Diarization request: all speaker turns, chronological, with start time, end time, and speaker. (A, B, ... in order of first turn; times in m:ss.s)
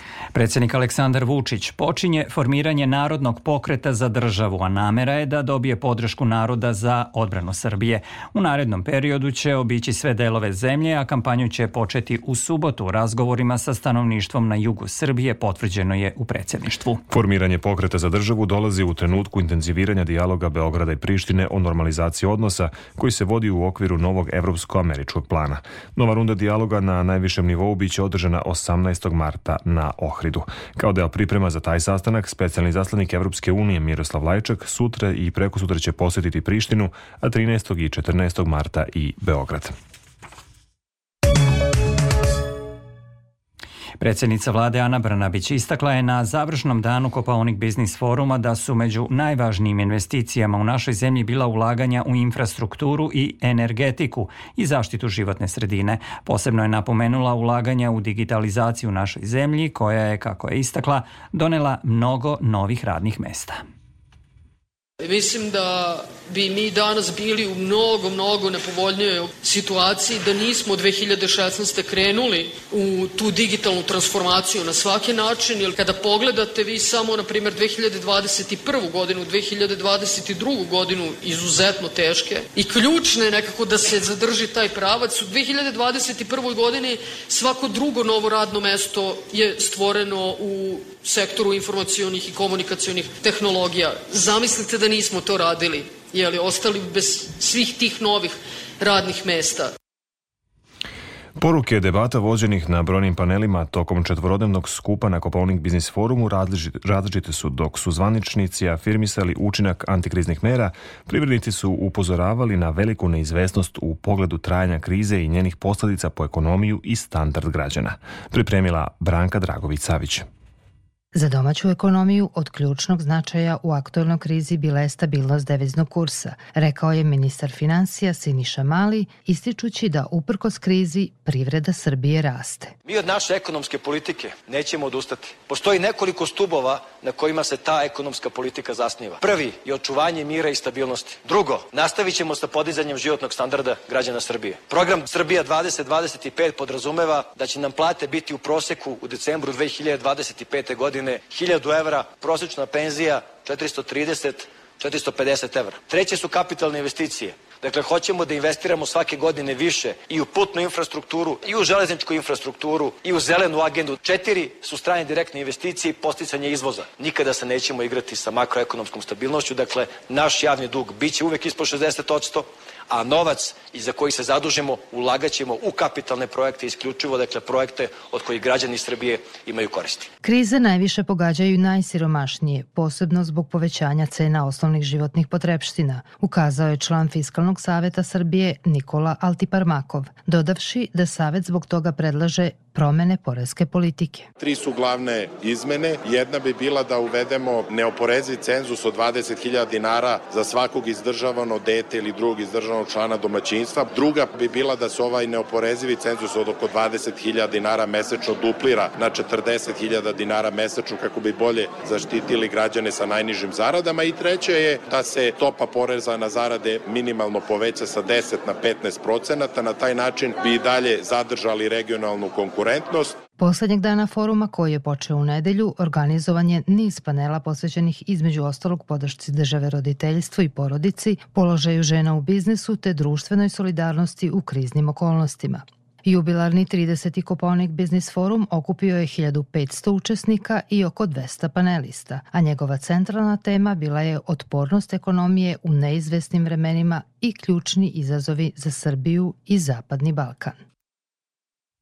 0:00.3-0:17.0 A
0:17.1-0:39.7 B
0:44.0-1:03.6 A
1:05.0-1:39.7 C
1:41.4-2:00.2 B
2:01.2-2:12.7 D
2:12.9-3:00.1 E
3:00.2-3:14.3 D
3:14.4-3:43.2 F
3:43.4-4:10.6 D